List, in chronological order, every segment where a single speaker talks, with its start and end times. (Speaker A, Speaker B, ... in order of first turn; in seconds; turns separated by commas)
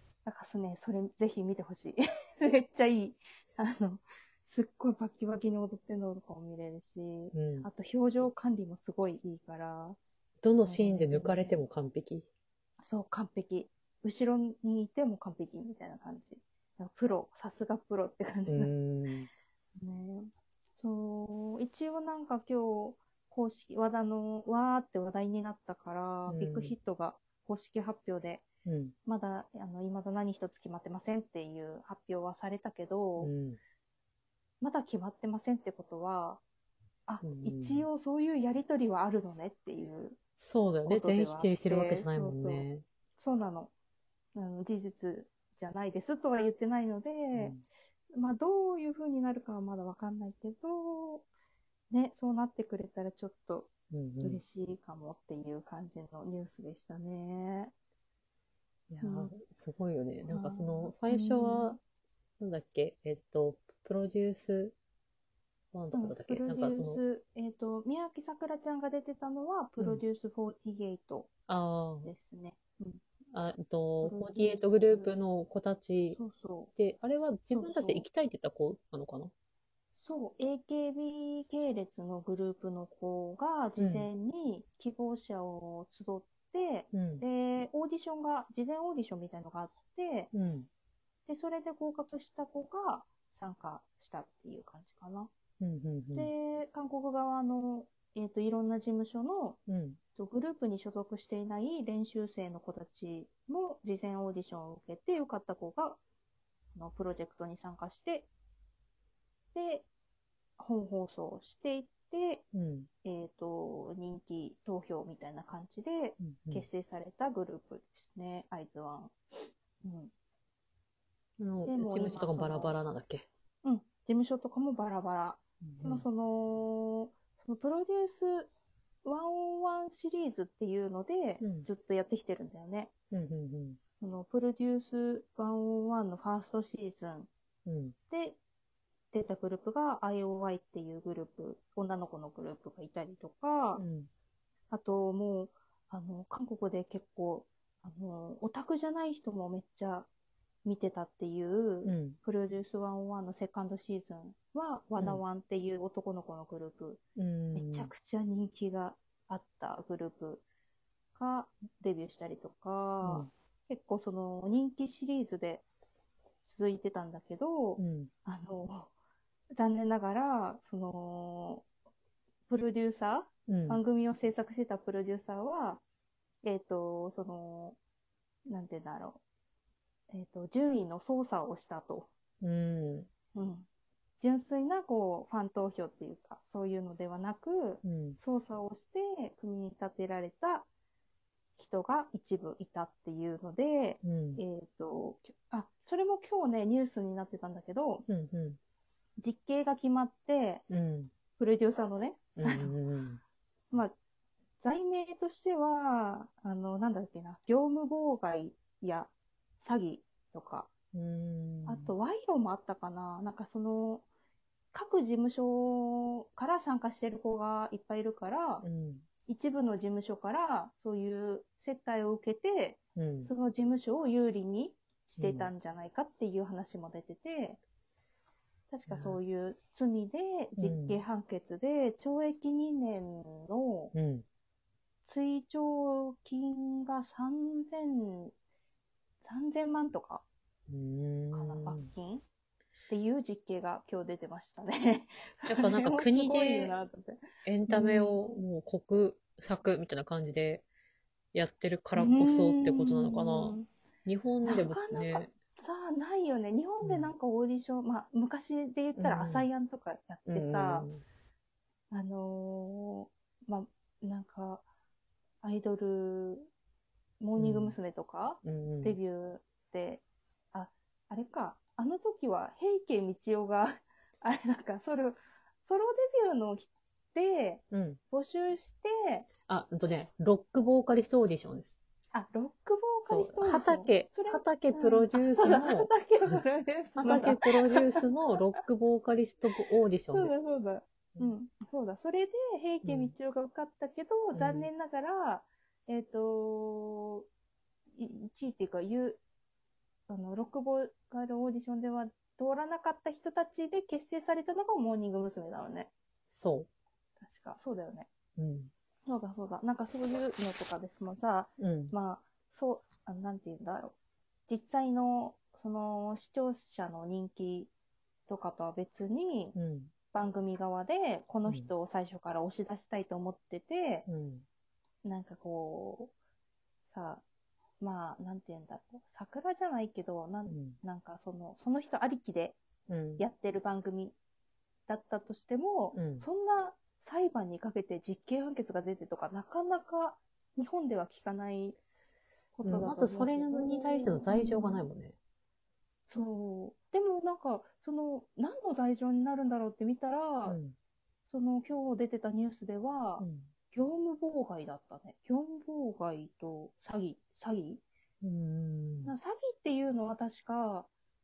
Speaker A: 0.2-10.0, Speaker B: 7.3-7.7, Speaker B: 10.4-12.3, Speaker A: 10.6-11.6, Speaker A: 12.8-18.7, Speaker B: 18.5-19.3, Speaker A: 19.8-28.5, Speaker B: 26.3-26.7, Speaker B: 28.6-28.9, Speaker A: 29.1-33.3, Speaker B: 33.2-33.6, Speaker A: 34.6-36.4, Speaker A: 37.1-40.2, Speaker B: 37.2-37.9, Speaker B: 40.4-42.8, Speaker A: 40.8-43.7, Speaker A: 44.3-47.5, Speaker B: 47.3-47.6, Speaker A: 48.1-51.3, Speaker A: 51.9-57.7, Speaker B: 53.9-54.4, Speaker B: 58.9-61.8, Speaker A: 59.0-59.3, Speaker A: 60.2-61.8, Speaker B: 62.4-64.7, Speaker B: 65.7-67.0, Speaker A: 65.9-71.3, Speaker B: 69.8-70.0, Speaker B: 71.5-72.1, Speaker A: 72.0-73.0, Speaker B: 73.3-76.2, Speaker A: 74.0-75.1, Speaker A: 76.2-76.7, Speaker B: 76.7-79.3, Speaker A: 77.5-78.0, Speaker A: 79.9-90.3, Speaker B: 83.8-84.1, Speaker B: 86.9-87.2, Speaker B: 90.3-90.7, Speaker A: 91.3-95.3, Speaker B: 95.6-96.3, Speaker A: 96.1-99.6, Speaker B: 99.7-100.0, Speaker A: 100.2-106.0, Speaker A: 106.7-108.3, Speaker A: 109.5-109.9, Speaker A: 110.6-112.4, Speaker B: 112.5-112.9, Speaker A: 113.0-119.1, Speaker B: 116.2-116.7, Speaker A: 119.8-120.1, Speaker B: 121.4-123.2, Speaker A: 121.7-122.8, Speaker A: 123.6-128.5, Speaker B: 125.6-126.0, Speaker A: 129.0-132.9, Speaker B: 131.4-131.7, Speaker B: 133.1-133.8, Speaker A: 134.0-137.3, Speaker B: 137.7-137.9, Speaker A: 138.1-138.4, Speaker A: 139.1-143.8, Speaker B: 143.8-144.1, Speaker A: 144.7-150.1, Speaker A: 150.6-157.0, Speaker B: 151.8-152.2, Speaker B: 155.0-155.2, Speaker B: 157.2-157.9, Speaker A: 157.5-160.4, Speaker A: 161.1-165.6, Speaker B: 163.0-163.3, Speaker A: 166.4-168.9, Speaker B: 167.8-168.1, Speaker A: 169.6-171.7, Speaker A: 172.5-175.8, Speaker B: 173.5-173.8, Speaker A: 176.4-177.8, Speaker A: 178.5-179.2, Speaker A: 180.1-182.1, Speaker B: 182.4-183.1, Speaker A: 183.3-183.7, Speaker A: 184.2-190.7, Speaker B: 187.8-188.2, Speaker A: 191.6-198.1, Speaker B: 194.0-194.4, Speaker B: 198.1-198.6, Speaker A: 199.2-200.6, Speaker B: 200.7-201.1, Speaker A: 201.3-202.8, Speaker B: 202.4-203.2, Speaker A: 204.6-210.7, Speaker B: 210.9-211.9, Speaker A: 211.7-214.1, Speaker A: 214.7-218.6, Speaker B: 218.6-219.1, Speaker A: 219.2-227.6, Speaker B: 222.9-223.3, Speaker B: 225.2-225.5, Speaker A: 228.7-233.9, Speaker B: 228.8-229.2, Speaker B: 230.6-231.0, Speaker B: 233.9-234.2, Speaker A: 235.0-238.3, Speaker A: 239.2-240.2, Speaker B: 240.7-241.9, Speaker A: 241.3-242.2, Speaker A: 242.9-248.3, Speaker B: 245.5-246.8, Speaker B: 247.4-250.6, Speaker B: 251.3-255.3, Speaker A: 251.9-253.7, Speaker A: 254.4-260.9, Speaker B: 256.8-257.1, Speaker B: 258.9-259.5, Speaker B: 260.3-261.0, Speaker A: 261.9-264.6, Speaker A: 265.4-266.5, Speaker A: 267.2-279.3, Speaker B: 267.4-267.8, Speaker B: 268.4-269.0, Speaker B: 277.7-278.0, Speaker B: 279.4-281.8, Speaker A: 282.1-288.6, Speaker B: 283.1-286.4, Speaker B: 287.0-290.3, Speaker A: 290.1-297.3, Speaker B: 292.8-293.1, Speaker B: 294.3-294.7, Speaker A: 297.9-299.2, Speaker A: 300.1-305.9, Speaker B: 306.3-306.7, Speaker A: 307.2-308.1, Speaker B: 308.4-308.7, Speaker A: 309.1-313.9, Speaker B: 311.6-311.9, Speaker A: 314.5-317.7, Speaker A: 318.3-319.5, Speaker B: 319.5-319.9, Speaker A: 320.1-324.1, Speaker B: 321.4-321.7, Speaker B: 324.1-324.4, Speaker A: 325.0-326.1, Speaker A: 326.9-327.2, Speaker A: 327.8-332.6, Speaker B: 330.5-330.8, Speaker B: 332.9-333.2, Speaker A: 333.2-334.1, Speaker A: 334.9-341.8, Speaker B: 335.9-336.3, Speaker A: 342.6-344.8, Speaker B: 342.6-345.1, Speaker A: 346.1-350.6, Speaker B: 350.4-350.7, Speaker A: 351.3-357.8, Speaker B: 353.2-353.5, Speaker B: 358.2-359.1, Speaker A: 359.0-360.9